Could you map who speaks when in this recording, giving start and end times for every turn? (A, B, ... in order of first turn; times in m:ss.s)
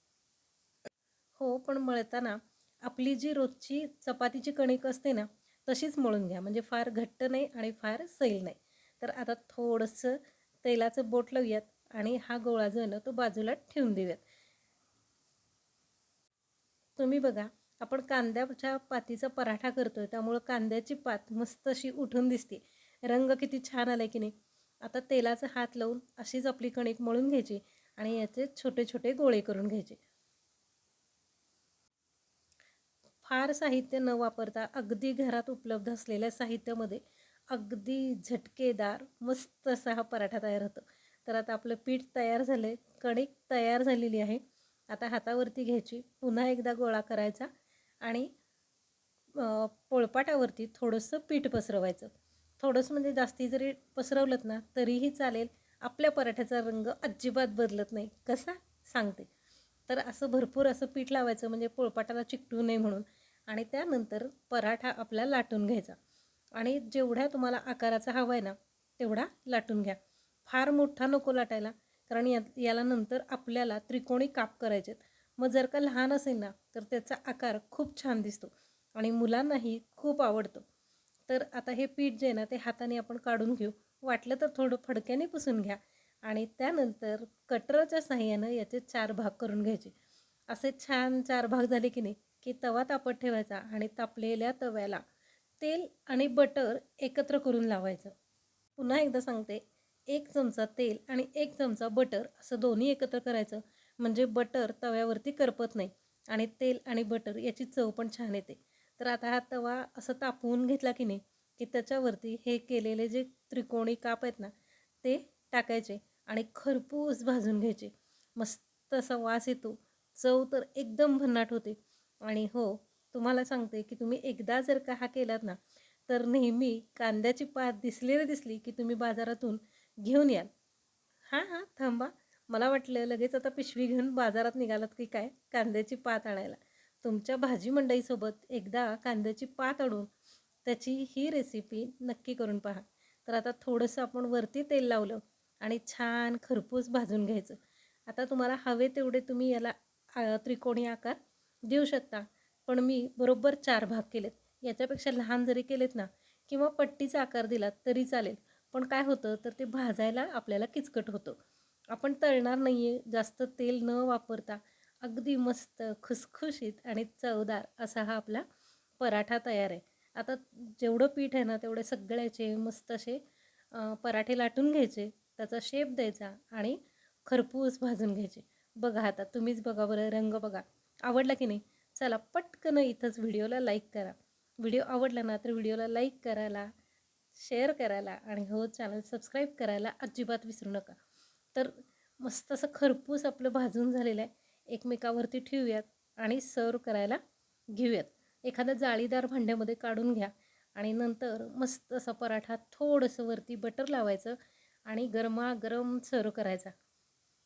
0:01.4-0:14.2 A
0:17.0-0:24.3 A
0:24.8-0:30.0 A
0:33.2-0:47.5 A
0:48.0-0:48.3 A
0:49.4-0:59.3 A
0:59.9-1:06.0 A
1:06.6-1:20.6 A
1:21.3-1:29.9 A
1:30.5-1:35.0 A
1:35.6-1:38.1 A
1:38.8-1:54.5 A
1:55.0-2:10.5 A
2:11.3-2:20.1 A
2:20.6-2:41.4 A
2:41.9-2:48.4 A
2:49.0-2:53.2 A
2:53.7-3:06.7 A
3:07.4-3:11.0 A
3:11.6-3:17.2 A
3:17.7-3:26.7 A